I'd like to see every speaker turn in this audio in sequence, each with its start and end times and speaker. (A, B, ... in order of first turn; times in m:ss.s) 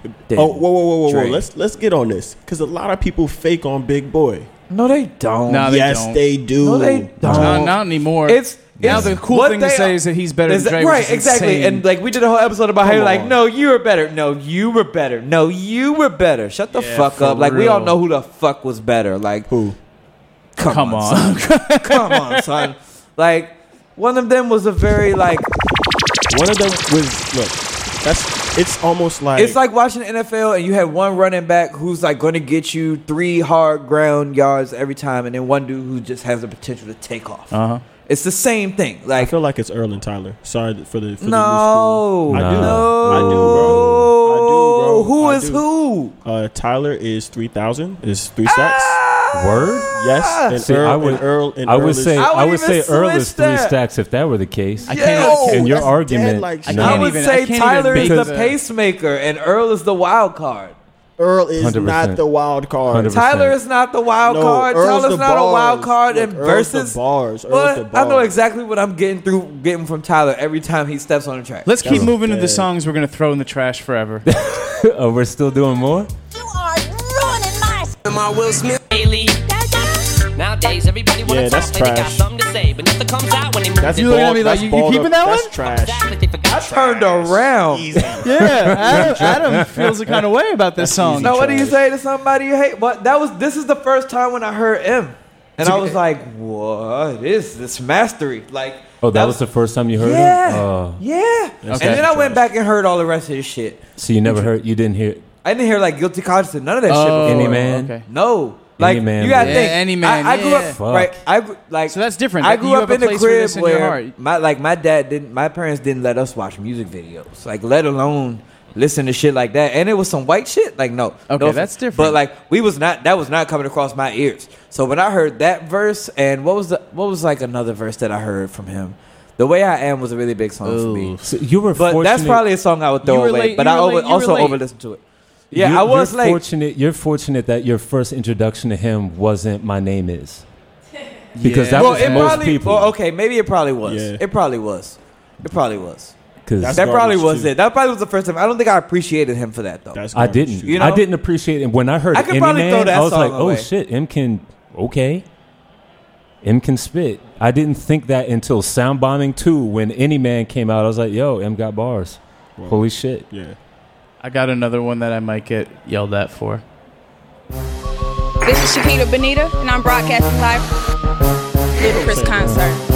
0:00.3-0:01.4 A
0:00.3-0:04.5 B
0:04.7-0:05.7 A
0:05.5-0:06.2 C
0:05.6-0:07.6 B
0:06.6-0:19.5 A
0:07.2-0:07.6 D
0:07.2-0:11.8 C
0:08.8-0:09.2 D
0:12.8-0:13.3 C
0:16.7-0:18.0 C
0:19.5-0:19.8 B
0:20.6-0:25.5 A
0:20.7-0:22.4 C
0:26.3-0:29.6 B
0:29.4-0:37.5 A
0:37.5-0:37.8 C
0:38.0-0:39.3 A
0:39.2-0:45.6 B
0:41.2-0:46.1 A
0:42.3-0:44.1 D
0:46.2-0:49.0 B
0:48.4-0:50.6 A
0:49.3-0:49.9 D
0:49.9-0:52.3 B
0:50.5-0:57.1 D
0:52.2-0:53.8 A
0:54.9-0:55.8 C
0:54.9-0:55.8 A
0:55.2-0:57.0 B
0:56.6-0:58.5 C
0:56.7-1:00.7 A
0:57.9-0:58.4 D
1:01.2-1:03.1 B
1:01.6-1:02.2 D
1:02.9-1:03.6 D
1:03.1-1:11.7 A
1:04.2-1:08.3 B
1:11.6-1:14.2 C
1:11.8-1:12.7 B
1:11.8-1:12.1 D
1:14.3-1:16.1 D
1:16.3-1:17.9 E
1:18.9-1:24.3 E
1:21.2-1:22.3 B
1:23.8-1:29.3 B
1:23.9-1:25.6 C
1:25.6-1:26.8 E
1:26.5-1:28.1 A
1:28.2-1:31.7 C
1:28.5-1:29.9 D
1:30.8-1:31.8 B
1:31.2-1:39.4 A
1:39.0-1:41.0 D
1:40.0-1:43.8 A
1:41.6-1:42.4 B
1:41.7-1:42.0 C
1:44.0-1:45.2 D
1:45.4-2:11.1 A
1:46.9-1:48.0 C
1:47.2-1:48.0 D
1:48.8-1:49.8 D
1:49.4-1:50.8 C
1:50.7-1:51.2 D
1:51.9-1:54.1 C
2:01.3-2:02.2 C
2:10.6-2:11.3 C
2:11.2-2:12.4 D
2:11.7-2:16.4 A
2:13.0-2:14.6 C
2:15.5-2:20.4 D
2:21.4-2:22.4 C
2:21.4-2:22.9 D
2:21.7-2:26.1 A
2:23.8-2:24.2 B
2:26.4-2:26.8 D
2:26.6-2:27.5 B
2:26.7-2:30.0 A
2:29.9-2:31.0 B
2:30.1-2:35.2 D
2:30.6-2:31.0 A
2:32.1-2:33.7 A
2:36.4-2:43.3 D
2:42.6-2:43.6 B
2:44.2-2:46.6 C
2:48.4-2:50.7 F
2:51.8-2:52.8 F
2:51.8-2:52.6 B